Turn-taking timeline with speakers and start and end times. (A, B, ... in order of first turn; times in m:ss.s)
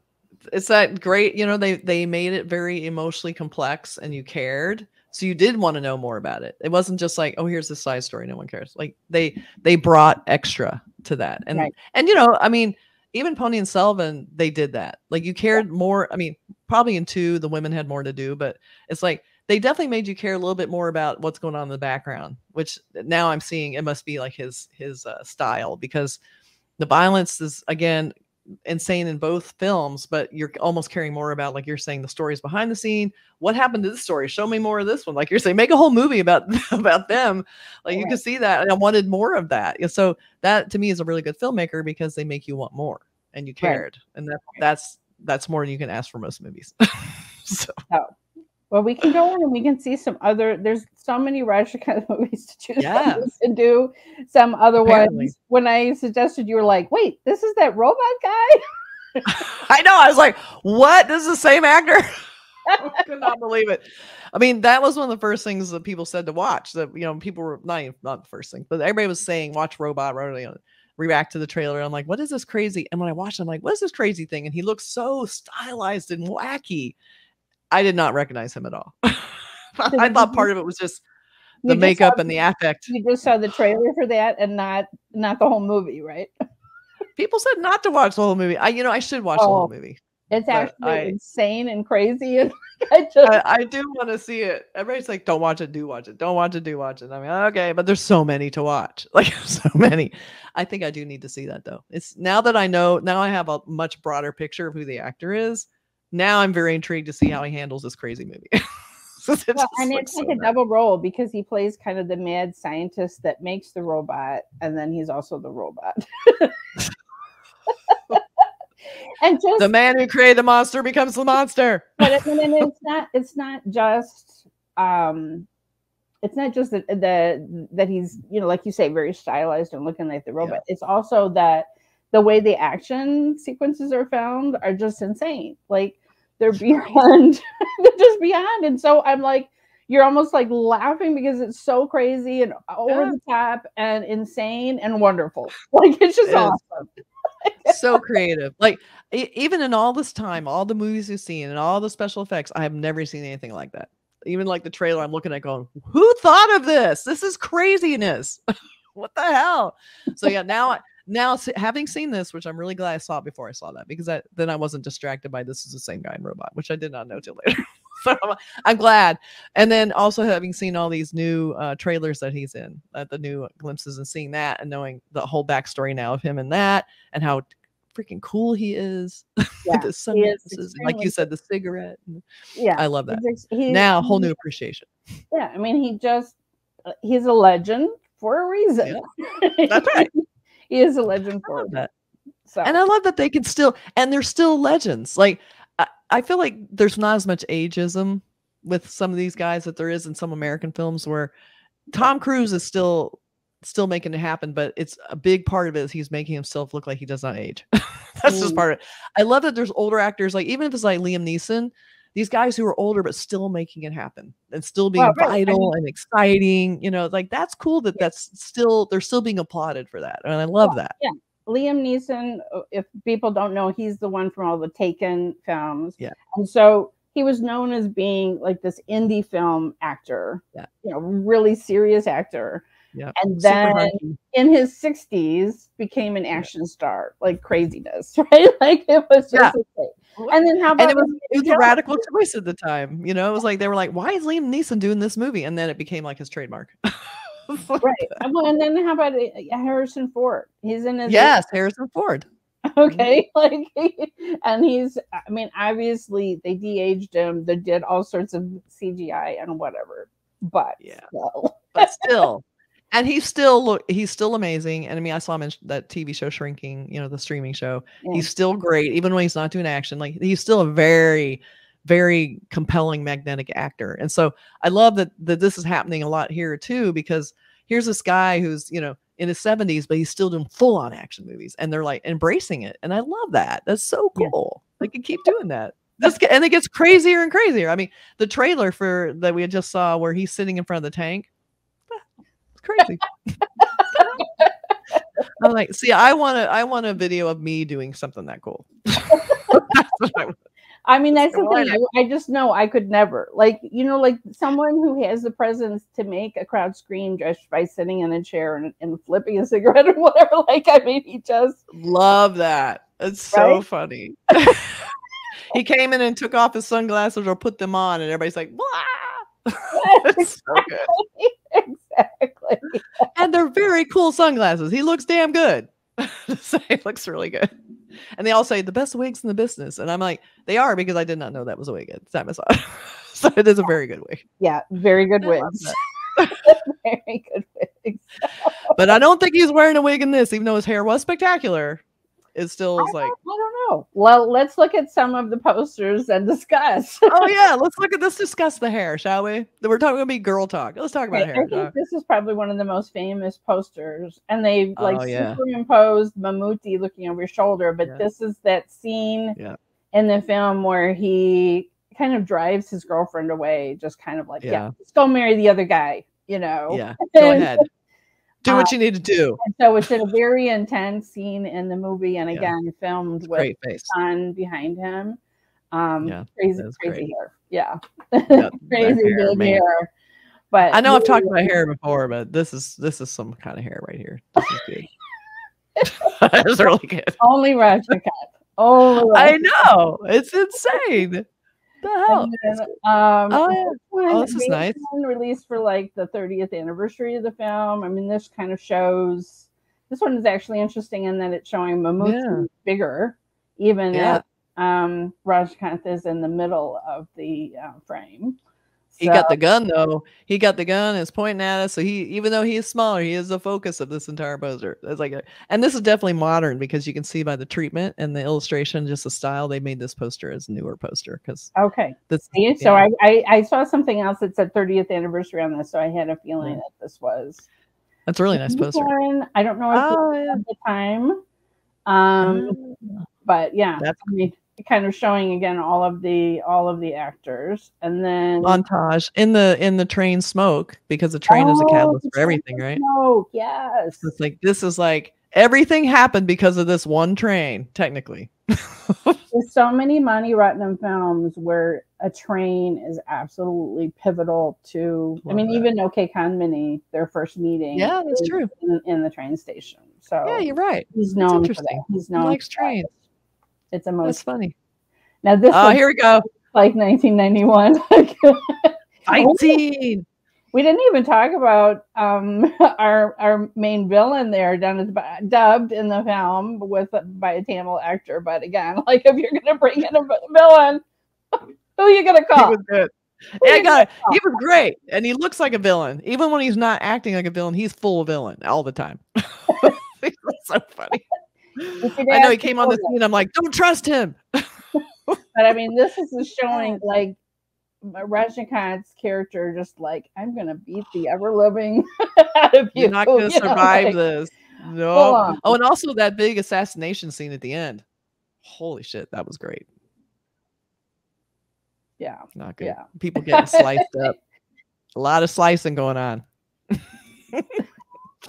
0:00.5-0:26.2 A
0:26.8-0:28.1 A
0:28.6-0:47.8 A
0:37.9-0:38.2 B
0:47.9-0:48.1 B
0:48.7-0:58.6 B
0:52.8-0:53.3 A
0:54.8-0:55.3 A
0:59.2-1:02.1 A
1:02.7-1:03.0 B
1:02.8-1:03.8 A
1:04.3-1:16.9 A
1:17.7-1:21.0 A
1:19.9-1:20.5 B
1:21.6-1:22.2 B
1:21.6-1:22.9 A
1:22.9-1:26.3 B
1:27.2-1:30.0 A
1:29.4-1:29.7 B
1:30.3-1:33.4 B
1:30.5-1:31.1 A
1:33.2-1:50.5 A
1:49.5-1:56.6 B
1:59.2-1:59.7 B
1:59.6-2:02.6 A
2:02.0-2:05.5 B
2:06.2-2:26.9 B
2:22.9-2:23.2 A
2:26.2-2:26.6 A
2:27.4-2:27.8 B
2:27.7-2:38.4 A
2:38.9-3:02.2 A
2:59.6-3:01.2 B
3:02.5-3:04.3 B
3:02.8-3:04.9 A
3:05.3-3:06.4 B
3:06.9-3:11.8 B
3:09.7-3:10.1 A
3:11.4-3:11.9 A
3:12.5-3:12.8 B
3:12.6-3:21.3 A
3:21.9-3:41.0 A
3:28.2-3:28.6 B
3:35.0-3:35.7 B
3:40.6-4:01.8 B
3:52.9-3:54.2 A
4:00.2-4:07.8 A
4:07.8-4:11.3 B
4:11.1-4:12.3 A
4:12.7-4:22.2 B
4:20.8-4:21.1 A
4:21.7-4:51.3 A
4:28.0-4:28.3 B
4:52.6-4:53.4 A
4:53.6-4:54.5 B
4:55.4-5:00.4 A
4:59.1-4:59.6 B
5:00.9-5:11.6 B
5:01.1-5:01.8 A
5:11.7-5:14.8 A
5:13.3-5:13.6 B
5:15.5-5:20.9 A
5:19.7-5:23.1 B
5:23.1-5:27.5 A
5:28.2-5:34.2 A
5:34.4-5:38.8 B
5:35.2-5:36.4 A
5:38.7-5:41.8 A
5:42.3-5:43.1 A
5:42.8-5:47.3 B
5:47.1-5:51.7 A
5:51.1-5:59.4 B
5:54.8-5:55.4 A
5:59.9-6:07.6 B
6:04.4-6:04.7 A
6:06.7-6:07.6 A
6:08.4-6:09.8 A
6:08.4-6:08.7 B
6:09.4-6:15.2 B
6:13.3-6:13.9 A
6:15.7-6:19.9 B
6:16.0-6:17.0 A
6:18.3-6:19.6 A
6:20.5-6:21.4 B
6:20.7-6:24.9 A
6:25.8-6:26.0 B
6:25.8-6:27.2 A
6:27.2-6:29.3 B
6:29.1-6:31.2 A
6:31.8-6:32.7 A
6:32.1-6:48.4 B
6:33.3-6:34.8 A
6:42.0-6:42.5 A
6:43.9-6:44.2 A
6:48.9-6:49.3 B
6:49.0-7:01.5 A
7:01.6-7:07.4 B
7:02.1-7:02.9 A
7:08.1-7:08.9 A
7:08.3-7:11.2 B
7:09.7-7:10.4 A
7:11.9-7:12.6 B
7:12.2-7:13.0 A
7:13.2-7:18.6 B
7:18.4-7:22.8 A
7:21.3-7:24.1 B
7:24.0-7:29.2 A
7:29.3-7:42.7 B
7:35.2-7:35.6 A
7:37.7-7:38.5 A
7:40.2-7:42.9 A
7:43.7-7:44.2 B
7:44.0-7:44.5 A
7:45.2-7:45.8 B
7:45.5-7:46.2 A
7:46.5-7:49.6 B
7:49.1-7:50.0 A
7:50.5-8:00.8 B
8:01.8-8:02.6 B
8:02.4-8:11.0 A
8:03.4-8:04.2 B
8:09.5-8:09.7 B
8:11.6-8:14.5 A
8:11.8-8:12.9 B
8:15.3-8:17.2 B
8:17.8-8:24.0 B
8:22.8-8:27.8 A
8:24.9-8:25.5 B
8:28.4-8:29.6 A
8:32.0-8:33.8 B
8:32.4-8:34.2 A
8:34.9-8:37.6 A